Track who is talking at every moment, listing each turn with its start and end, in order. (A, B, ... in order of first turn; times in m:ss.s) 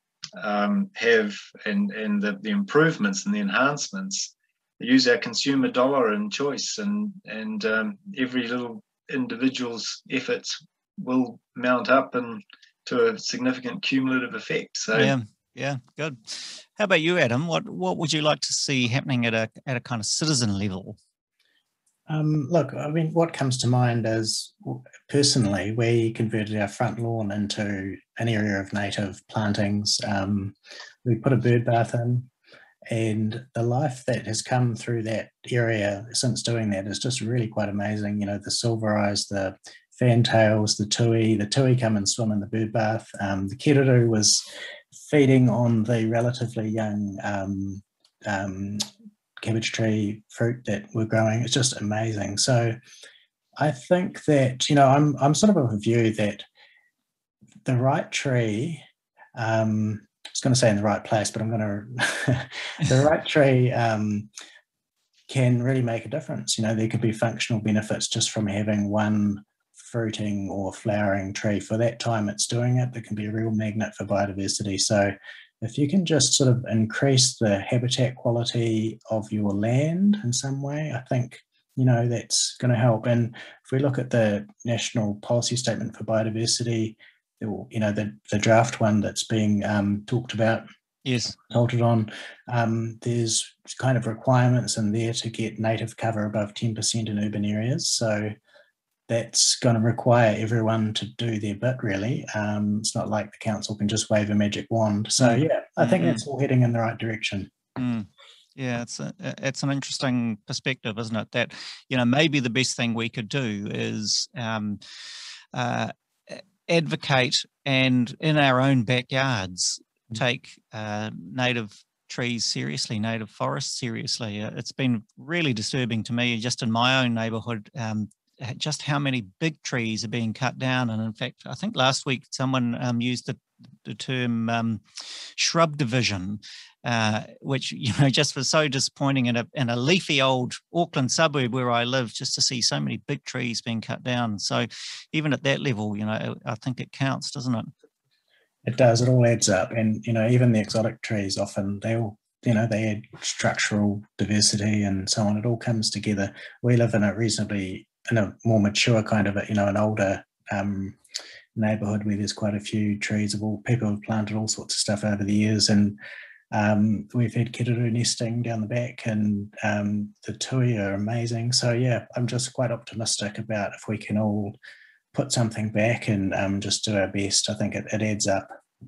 0:00.4-0:15.2 A
0:15.0-0:21.0 B
0:22.1-0:32.3 C
0:32.9-0:48.9 C
0:49.4-0:52.8 C
0:53.6-0:56.5 C
0:57.6-1:04.3 C
1:05.3-1:30.6 C
1:31.0-1:31.4 B
1:31.4-1:38.3 C
1:39.1-1:47.5 C
1:45.2-1:46.2 B
1:47.8-1:54.8 B
1:55.5-2:27.7 B
2:28.6-2:41.0 C
2:41.6-2:46.0 C
2:46.5-2:54.6 C
2:55.1-2:58.6 C